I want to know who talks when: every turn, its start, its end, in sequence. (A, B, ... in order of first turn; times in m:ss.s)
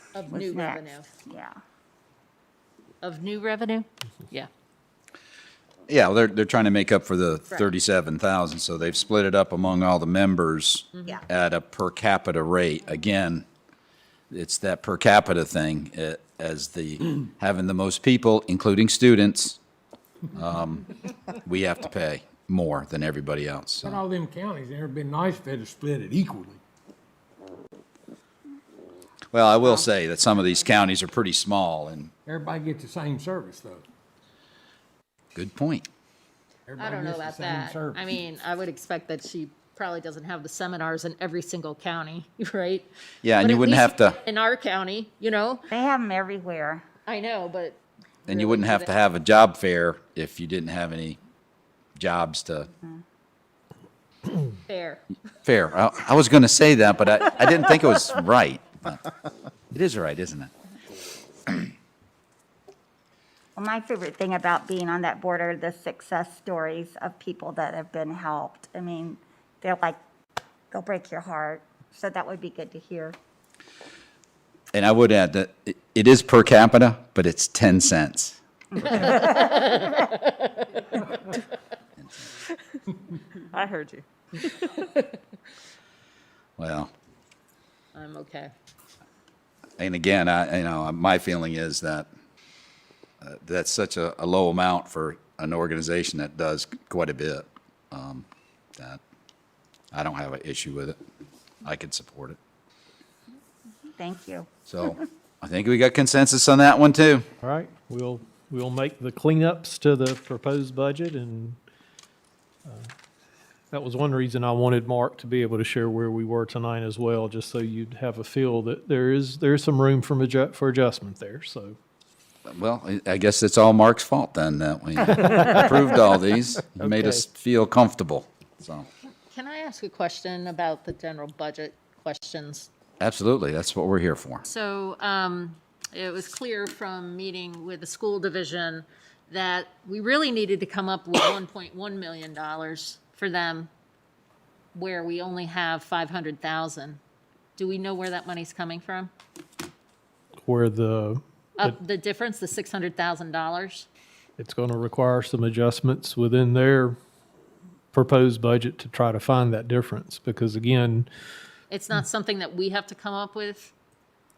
0:00.1-0:01.1 A
0:00.3-0:01.6 B
0:03.0-0:04.5 A
0:05.9-0:13.4 C
0:10.9-0:11.2 A
0:14.3-0:19.6 C
0:20.3-0:20.9 C
0:21.4-0:24.0 C
0:23.8-0:26.6 D
0:29.3-0:32.1 C
0:32.2-0:33.8 D
0:35.3-0:35.9 C
0:36.7-0:38.2 D
0:36.8-0:42.9 A
0:43.2-0:44.2 C
0:43.4-0:45.7 A
0:45.7-0:46.8 B
0:47.1-0:48.9 A
0:48.3-0:51.2 C
0:52.0-0:52.7 C
0:54.7-0:55.0 A
0:55.4-0:59.0 C
0:59.7-1:00.5 C
1:03.6-1:10.0 B
1:10.7-1:13.2 B
1:14.7-1:18.4 C
1:18.9-1:21.0 A
1:22.0-1:22.3 C
1:26.6-1:26.9 C
1:27.9-1:28.5 A
1:29.8-1:32.1 C
1:33.2-1:38.2 C
1:39.9-1:41.0 C
1:41.6-1:42.4 C
1:43.9-1:44.5 B
1:44.7-1:47.2 C
1:47.4-1:51.6 E
1:53.7-2:01.8 E
2:02.5-2:08.9 C
2:09.3-2:12.7 A
2:13.0-2:14.4 C
2:14.4-2:23.7 A
2:24.7-2:27.0 A
2:27.6-2:29.1 A
2:30.4-2:31.8 E
2:31.6-2:33.9 A
2:34.4-2:37.0 E
2:37.9-2:41.1 E
2:41.7-2:43.7 A